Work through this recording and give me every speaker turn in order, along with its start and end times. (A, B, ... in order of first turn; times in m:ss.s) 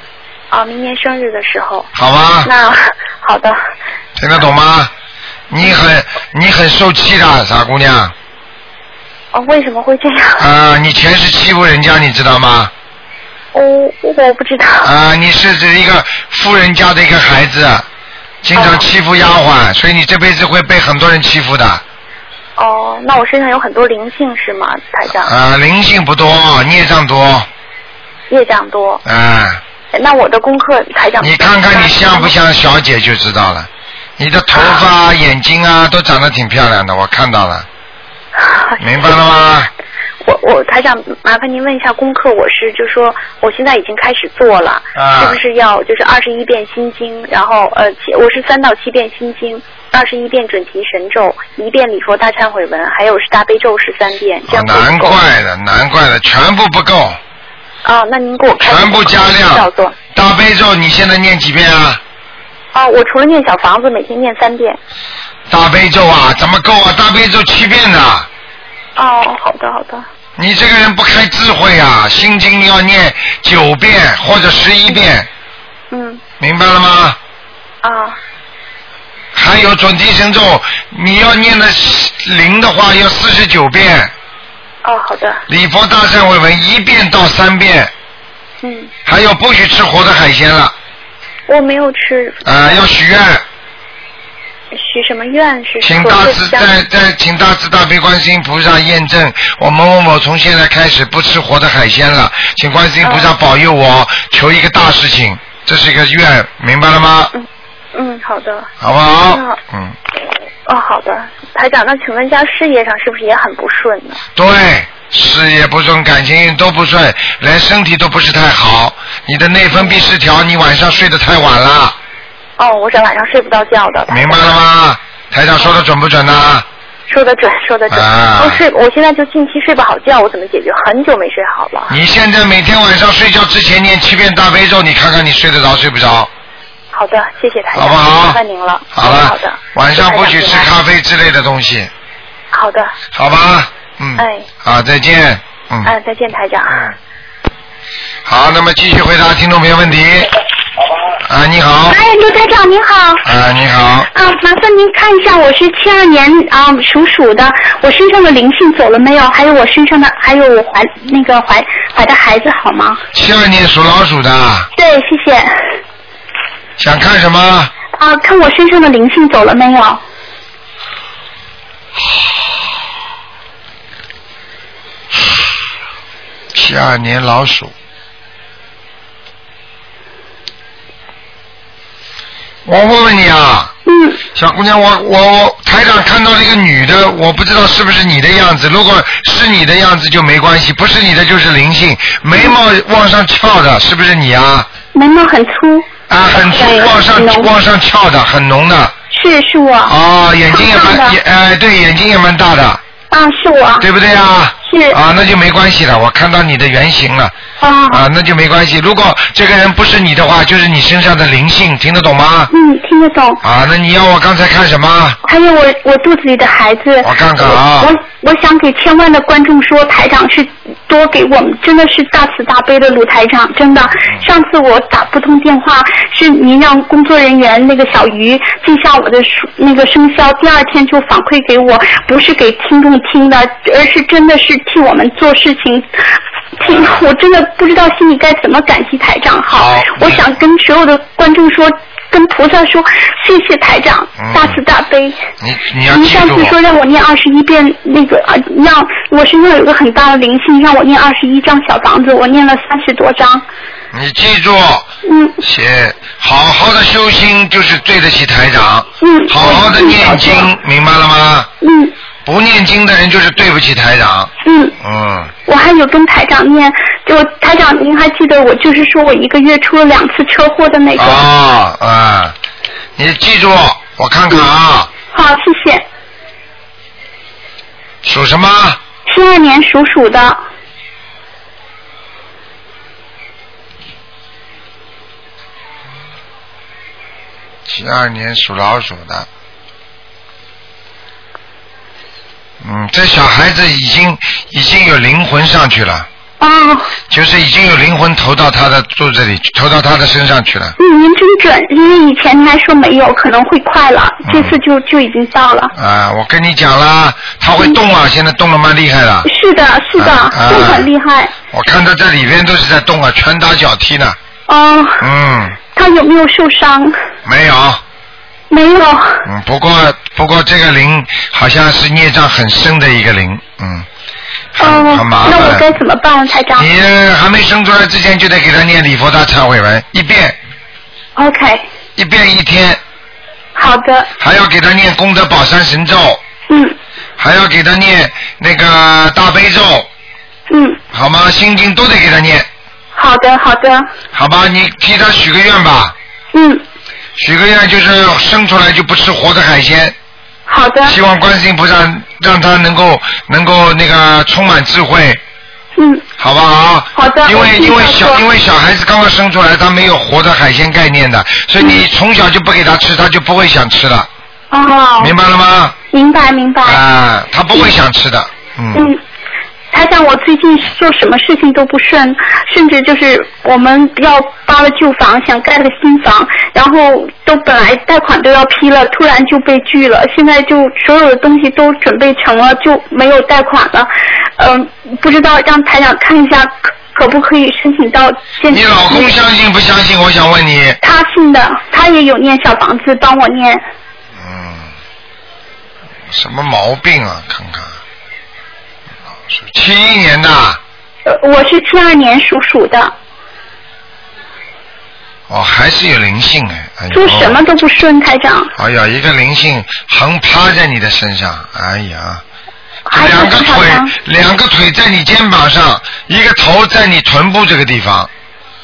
0:00.5-0:01.9 A
0:01.9-0:02.5 B
0:02.4-0:03.6 A
0:04.2-0:04.9 B
0:05.5-0:08.1 B
0:09.3-0:10.5 A
0:10.4-0:12.7 B
0:13.5-0:14.9 A
0:14.8-0:17.8 B
0:18.4-0:21.8 B
0:18.5-0:18.9 A
0:22.6-0:25.3 A
0:25.2-0:27.5 B
0:28.3-0:29.0 A
0:29.0-0:29.6 B
0:29.9-0:32.3 A
0:31.2-0:37.7 B
0:34.5-0:34.9 A
0:38.4-0:39.2 A
0:38.8-0:39.7 B
0:40.2-0:55.2 A
0:45.0-0:45.4 B
0:54.5-0:57.2 B
0:57.8-1:00.0 A
0:58.6-1:02.0 B
1:02.7-1:04.8 A
1:05.5-1:08.3 B
1:09.0-1:10.0 A
1:10.4-1:15.3 B
1:15.9-1:16.2 A
1:16.4-1:17.2 B
1:17.8-1:18.2 A
1:19.3-1:24.1 B
1:24.8-1:25.4 A
1:25.5-1:27.9 B
1:28.6-1:28.9 A
1:29.0-1:30.7 B
1:31.5-1:32.8 A
1:32.4-1:33.4 B
1:34.7-1:36.7 A
1:35.8-1:47.3 B
1:43.0-1:43.4 A
1:47.3-1:48.7 A
1:48.8-1:50.0 B
1:49.3-1:49.6 A
1:50.6-1:54.2 A
1:54.4-2:02.0 B
1:59.7-2:00.0 A
2:02.6-2:04.6 A
2:04.1-2:06.6 B
2:07.1-2:12.0 A
2:07.9-2:08.6 B
2:11.9-2:16.3 B
2:16.9-2:20.7 A
2:17.7-2:18.4 B
2:18.9-2:21.9 B
2:22.5-2:22.9 A
2:23.1-2:25.9 B
2:24.2-2:24.5 A
2:25.8-2:26.9 A
2:28.2-2:30.3 B
2:31.2-2:32.0 B
2:31.9-2:33.2 C
2:33.2-2:34.1 B
2:34.1-2:43.0 C
2:43.1-2:44.7 B
2:44.8-2:45.5 C
2:46.8-2:47.7 B
2:48.0-2:50.0 C
2:56.5-2:57.7 B
3:02.6-3:03.7 B
3:03.8-3:04.2 C
3:04.3-3:14.7 B
3:14.9-3:17.5 C
3:16.1-3:18.9 B
3:19.1-3:19.9 C
3:19.9-3:22.8 B
3:20.5-3:21.2 C
3:23.1-3:23.9 C
3:23.8-3:27.3 B
3:24.6-3:25.0 C
3:27.6-3:28.0 C
3:27.9-3:32.5 B
3:32.5-3:33.4 C
3:33.4-3:35.2 B
3:35.2-3:55.9 C
3:37.0-3:37.9 B
3:56.6-4:05.2 C
3:56.6-3:57.0 B
3:59.5-4:00.3 B
4:04.2-4:04.6 B
4:05.4-4:06.6 B
4:05.9-4:13.4 C
4:13.9-4:14.9 B
4:15.0-4:15.4 C
4:15.4-4:21.5 B
4:19.0-4:20.5 C
4:21.6-4:21.9 C
4:22.2-4:25.3 B
4:24.4-4:24.7 C
4:25.4-4:31.2 C
4:31.0-4:32.3 B
4:33.0-4:34.9 B
4:35.1-4:35.8 C
4:38.0-4:38.8 B
4:39.0-4:40.4 C
4:47.6-4:49.3 B
4:52.6-4:56.1 B
4:56.4-4:56.9 C
4:57.1-5:00.7 B
5:00.8-5:05.7 C
5:04.2-5:04.6 B
5:05.8-5:09.3 B
5:09.2-5:11.3 C
5:10.0-5:10.9 B
5:11.5-5:14.2 B
5:14.5-5:15.0 C
5:15.0-5:15.6 B
5:15.7-5:16.9 C
5:17.2-5:17.8 B
5:18.5-5:19.2 C
5:19.2-5:23.8 B
5:24.6-5:25.6 B
5:24.6-5:26.7 C
5:26.6-5:30.4 B
5:31.2-5:31.7 C
5:32.0-5:32.8 B
5:33.5-5:34.1 C
5:34.2-5:36.2 B
5:36.5-5:36.8 C
5:37.2-5:39.9 B
5:40.5-5:40.8 C
5:40.9-5:42.5 B
5:42.9-5:43.9 C
5:44.1-5:45.9 B
5:46.3-5:46.6 C
5:47.2-5:50.0 B
5:50.5-5:51.0 C
5:50.8-5:55.2 B
5:55.8-5:56.0 C
5:56.2-6:04.1 B
5:56.9-5:58.2 C
6:04.5-6:05.1 C
6:05.0-6:05.7 B
6:05.9-6:06.8 C
6:06.6-6:08.9 B
6:08.7-6:09.0 C
6:09.7-6:29.1 C
6:28.5-6:30.8 B
6:30.8-6:33.6 C
6:34.2-6:34.7 B
6:36.1-6:37.8 B
6:39.3-6:40.6 B
6:41.0-6:42.9 C
6:45.3-6:47.4 B
6:46.9-6:48.5 C
6:48.6-6:52.2 B
6:52.8-6:53.9 C
6:52.9-6:58.1 B